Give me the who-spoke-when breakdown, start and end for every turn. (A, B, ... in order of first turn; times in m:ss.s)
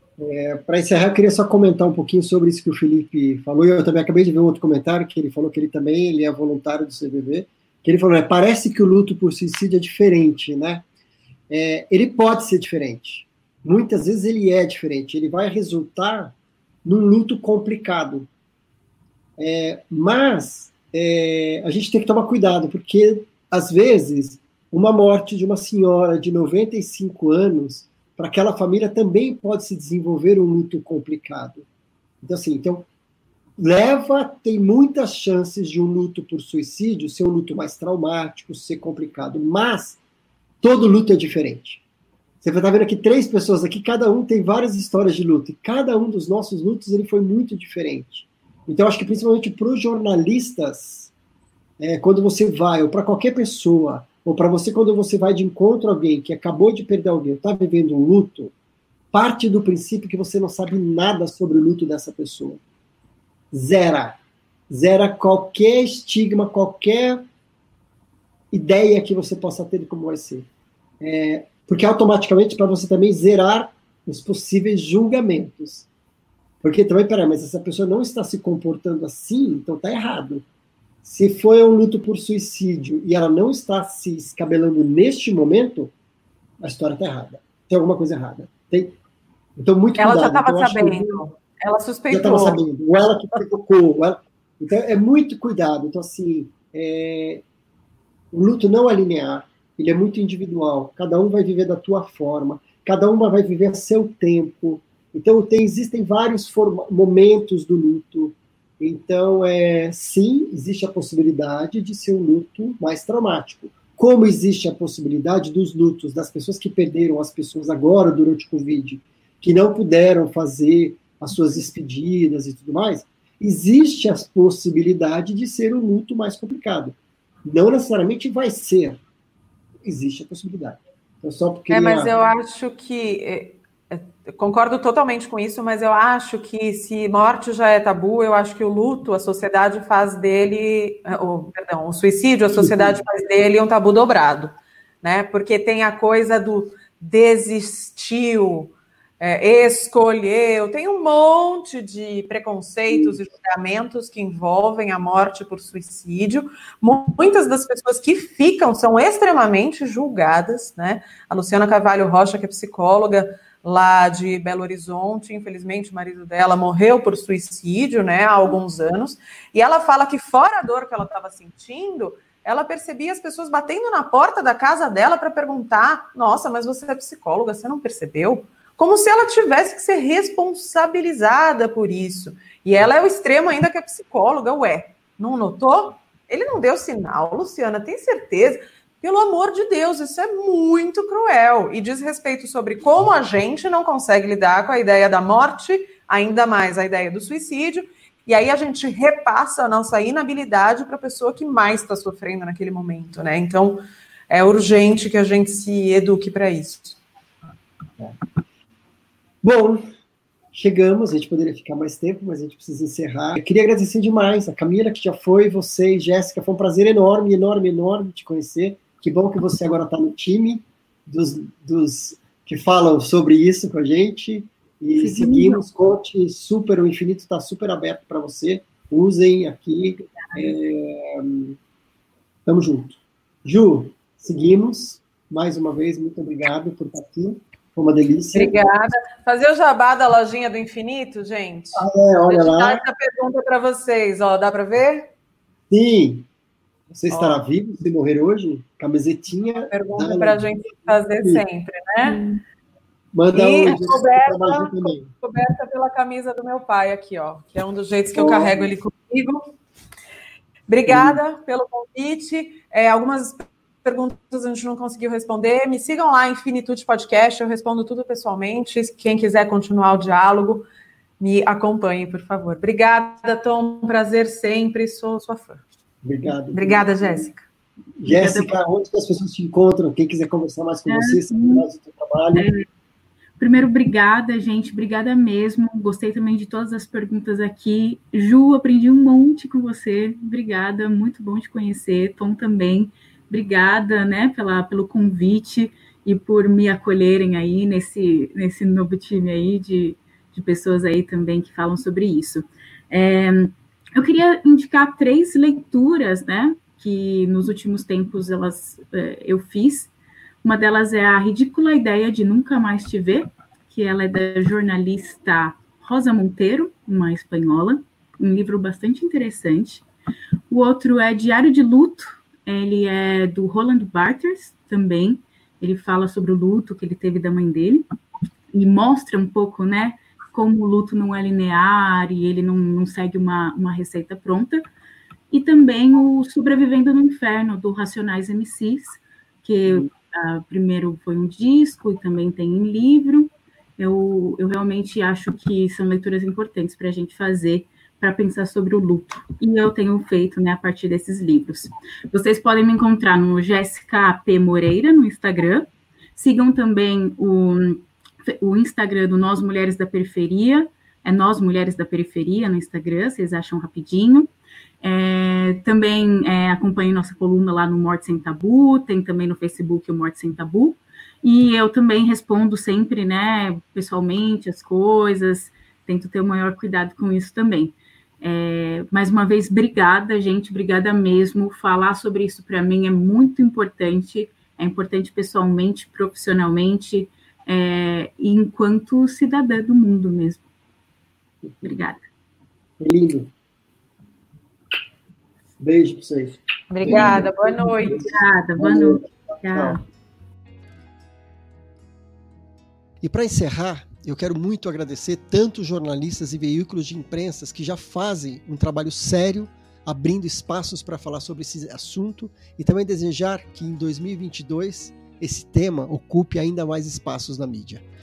0:00.2-0:10.8 A
0:11.5-0:18.3 A
0:19.4-0:31.6 A
0:32.2-0:32.9 A
0:33.6-0:40.0 A
0:40.6-0:41.8 A
0:42.4-0:51.1 A
0:51.8-0:58.5 A
0:59.1-1:02.6 A
1:03.5-1:04.2 A
1:04.7-1:07.2 A
1:08.5-1:10.5 A
1:11.0-1:15.9 A
1:16.6-1:20.4 A
1:21.0-1:25.9 A
1:26.6-1:28.9 A
1:29.6-1:31.3 A
1:30.0-1:32.6 B
1:32.1-1:37.4 A
1:38.3-2:09.0 A
2:09.8-2:12.1 A
2:11.7-3:27.0 B
2:22.5-2:23.0 A
3:29.4-3:29.8 A
3:30.5-3:51.6 A
3:45.0-3:45.6 C
3:52.4-3:58.6 A
3:58.3-4:05.1 B
4:01.7-4:02.8 A
4:05.7-4:06.3 A
4:06.9-4:11.4 A
4:07.1-4:07.4 B
4:09.6-4:12.2 B
4:12.0-4:12.4 C
4:13.1-4:15.1 A
4:13.3-4:19.5 B
4:18.1-4:18.6 C
4:20.7-4:30.6 B
4:20.9-4:21.2 A
4:31.2-4:35.6 B
4:36.0-4:37.2 A
4:36.5-4:37.4 B
4:38.0-4:42.5 A
4:38.0-4:38.5 C
4:40.9-4:41.6 C
4:42.3-4:42.6 C
4:43.4-5:09.9 C
5:10.4-5:19.8 C
5:20.5-5:27.8 C
5:28.5-5:34.6 C
5:35.3-6:04.3 C
6:04.8-6:30.4 C
6:31.4-6:31.8 A
6:31.6-6:32.0 C
6:32.8-6:33.3 A
6:35.6-6:39.8 A
6:36.7-6:38.0 B
6:36.8-6:39.8 C
6:43.0-6:57.8 A